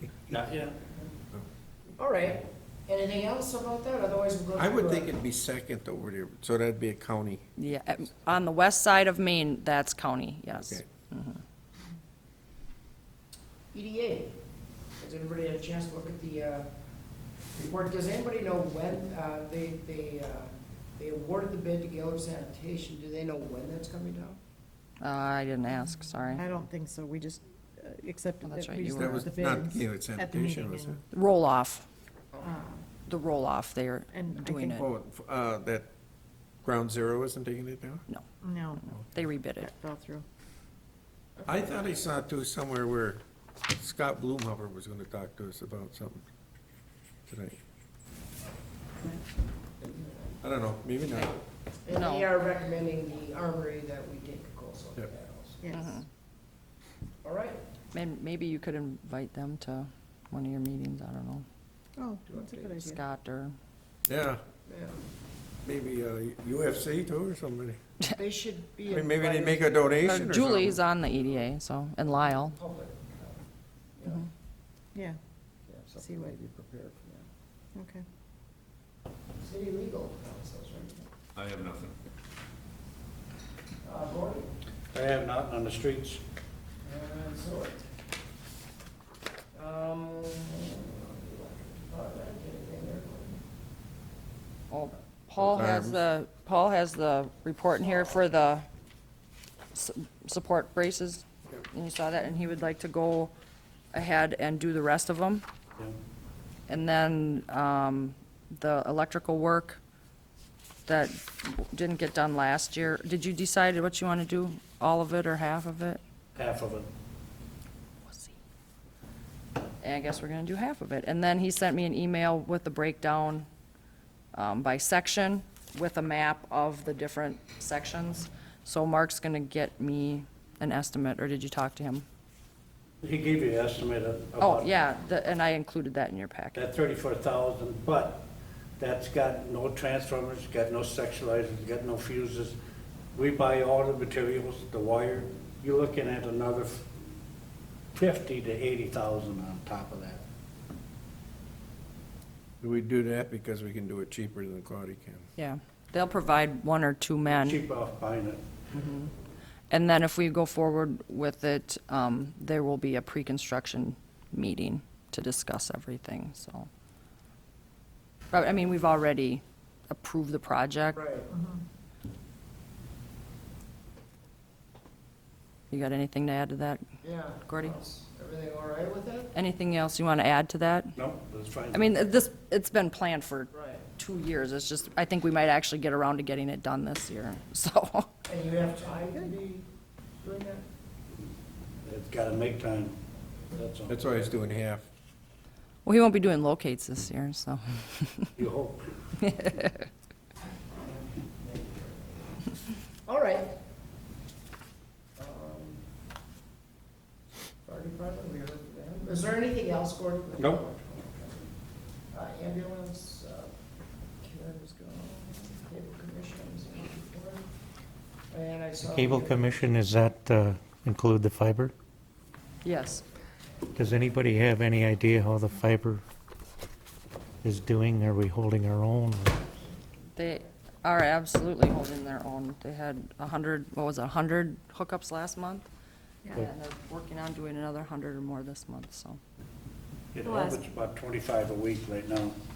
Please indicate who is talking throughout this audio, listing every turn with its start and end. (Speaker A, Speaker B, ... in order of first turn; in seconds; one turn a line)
Speaker A: 0.3-0.8
Speaker B: 2.0-5.1
Speaker C: 4.6-7.4
Speaker D: 7.6-11.4
Speaker C: 10.5-10.8
Speaker B: 13.7-14.3
Speaker B: 15.0-16.7
Speaker B: 17.5-24.4
Speaker D: 25.0-26.4
Speaker E: 26.3-31.0
Speaker D: 28.4-29.2
Speaker C: 28.9-31.0
Speaker D: 31.1-31.9
Speaker E: 32.4-32.8
Speaker D: 33.0-34.9
Speaker E: 34.1-34.8
Speaker C: 34.7-35.9
Speaker C: 36.6-38.0
Speaker E: 38.4-38.9
Speaker D: 39.0-39.7
Speaker E: 39.6-40.2
Speaker B: 41.4-41.8
Speaker C: 41.5-46.2
Speaker C: 47.3-47.6
Speaker B: 49.8-50.4
Speaker C: 50.4-51.4
Speaker B: 51.8-56.0
Speaker D: 51.9-52.3
Speaker E: 55.6-55.9
Speaker D: 55.7-56.0
Speaker B: 57.2-57.6
Speaker D: 57.9-61.4
Speaker E: 62.0-63.0
Speaker B: 62.3-62.9
Speaker D: 62.7-63.5
Speaker C: 64.1-64.4
Speaker B: 64.7-65.0
Speaker C: 65.6-67.8
Speaker B: 68.1-70.1
Speaker C: 68.9-70.8
Speaker D: 70.0-72.6
Speaker B: 72.2-73.4
Speaker B: 74.0-74.3
Speaker B: 75.7-77.2
Speaker E: 76.0-76.4
Speaker E: 77.7-78.0
Speaker B: 79.4-81.1
Speaker B: 83.8-84.5
Speaker A: 84.9-86.2
Speaker B: 86.8-87.8
Speaker B: 89.5-93.4
Speaker D: 94.7-98.7
Speaker C: 95.4-96.0
Speaker D: 99.7-103.3
Speaker D: 103.9-105.4
Speaker D: 106.7-109.8
Speaker D: 110.9-116.0
Speaker A: 116.3-116.9
Speaker D: 119.8-123.5
Speaker D: 124.3-132.0
Speaker A: 133.0-134.7
Speaker D: 134.4-136.6
Speaker A: 136.5-138.3
Speaker A: 138.8-142.6
Speaker A: 143.1-146.9
Speaker A: 147.9-150.2
Speaker C: 152.6-155.3
Speaker D: 155.4-157.6
Speaker A: 157.3-158.4
Speaker D: 158.7-159.1
Speaker D: 159.7-166.7
Speaker D: 168.3-171.0
Speaker B: 170.9-171.3
Speaker E: 171.3-171.6
Speaker D: 175.7-176.8
Speaker B: 177.0-179.4
Speaker D: 177.4-177.8
Speaker D: 179.3-181.0
Speaker A: 180.9-182.0
Speaker D: 181.7-188.1
Speaker B: 183.5-183.8
Speaker B: 188.3-189.7
Speaker B: 190.2-190.6
Speaker A: 191.8-193.0
Speaker A: 193.5-194.3
Speaker C: 193.9-194.9
Speaker D: 195.8-198.3
Speaker A: 198.4-198.9
Speaker D: 199.2-199.8
Speaker B: 200.8-202.4
Speaker B: 203.1-203.5
Speaker B: 205.2-205.8
Speaker B: 207.6-211.5
Speaker C: 210.4-210.6
Speaker B: 212.1-213.5
Speaker B: 214.2-217.4
Speaker B: 218.3-219.6
Speaker F: 218.8-221.7
Speaker D: 222.6-223.0
Speaker F: 223.8-226.0
Speaker F: 227.4-229.4
Speaker D: 230.1-235.7
Speaker D: 236.3-239.2
Speaker A: 240.1-242.3
Speaker E: 240.2-240.6